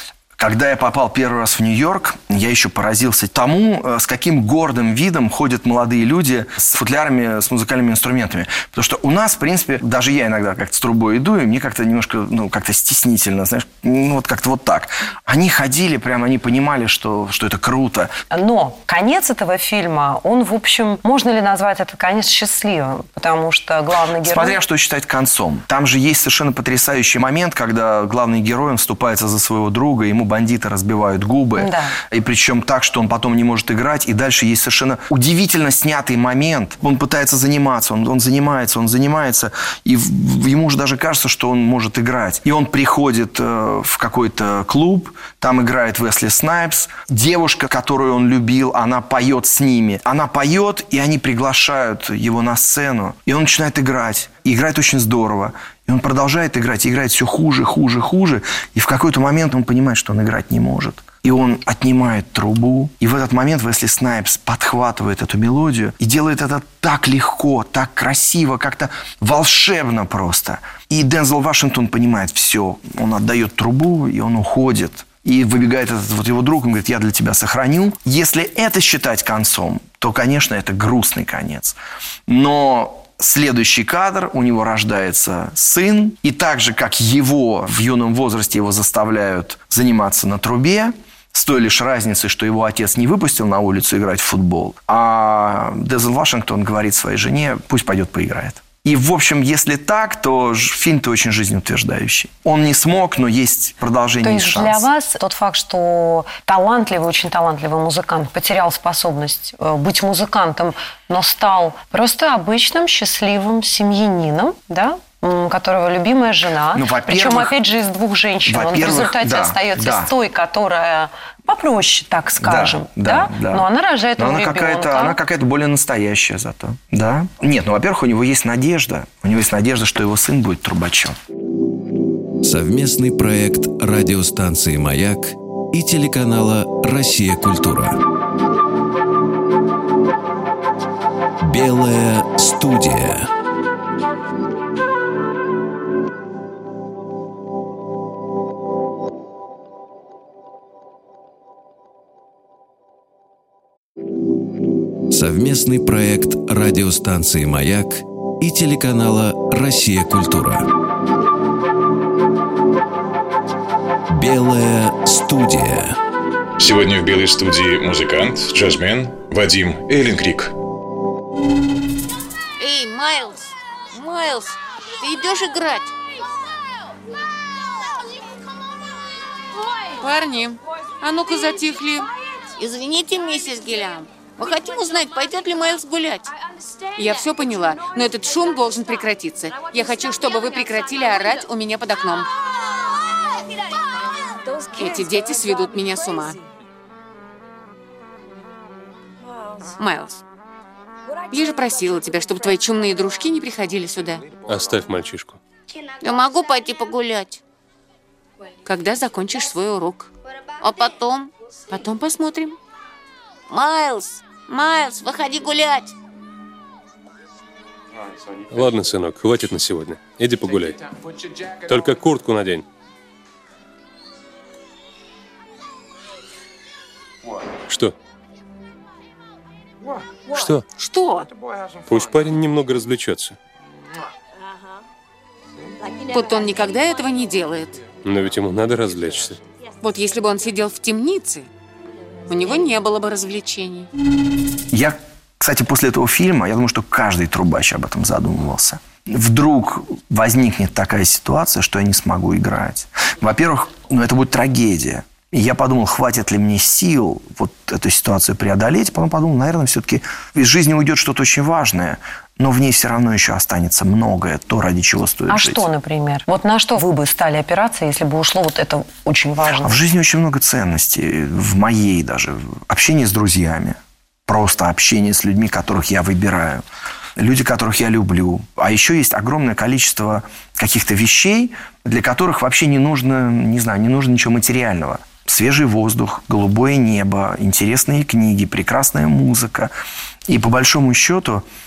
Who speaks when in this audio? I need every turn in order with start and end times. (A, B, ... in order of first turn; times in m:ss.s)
0:00.4-0:18.1 A
0:18.3-0:24.6 B
0:24.2-1:44.9 A
0:31.6-0:32.0 B
1:44.2-2:05.2 B
1:56.7-1:57.5 A
1:58.5-2:00.1 A
2:02.4-2:11.2 A
2:12.4-2:18.0 C
2:21.4-2:23.3 C
2:35.1-2:40.7 C
2:44.1-2:46.0 C
2:46.6-2:50.5 D
2:52.6-2:55.9 E
3:00.0-3:02.1 F
3:02.6-3:06.3 E
3:07.0-3:12.3 F
3:14.7-3:16.4 F
3:19.8-3:20.2 F
3:21.3-3:24.3 F
3:24.5-3:25.4 G
3:26.0-3:27.4 E
3:28.6-3:30.1 F
3:29.5-3:29.8 E
3:30.6-3:31.3 E
3:31.7-3:32.6 F
3:33.5-3:35.9 E
3:38.5-3:41.0 G
3:41.6-3:42.7 G
3:47.7-3:47.9 G
3:50.3-3:50.7 G
3:50.8-3:51.3 F
3:51.9-3:53.4 G
3:56.0-3:57.8 F
3:58.0-3:59.4 G
3:59.8-4:01.5 F
4:02.3-4:03.9 F
4:04.7-4:25.6 A
4:25.3-4:29.8 B
4:29.6-4:36.6 A
4:37.2-4:49.7 A
4:50.3-4:51.4 A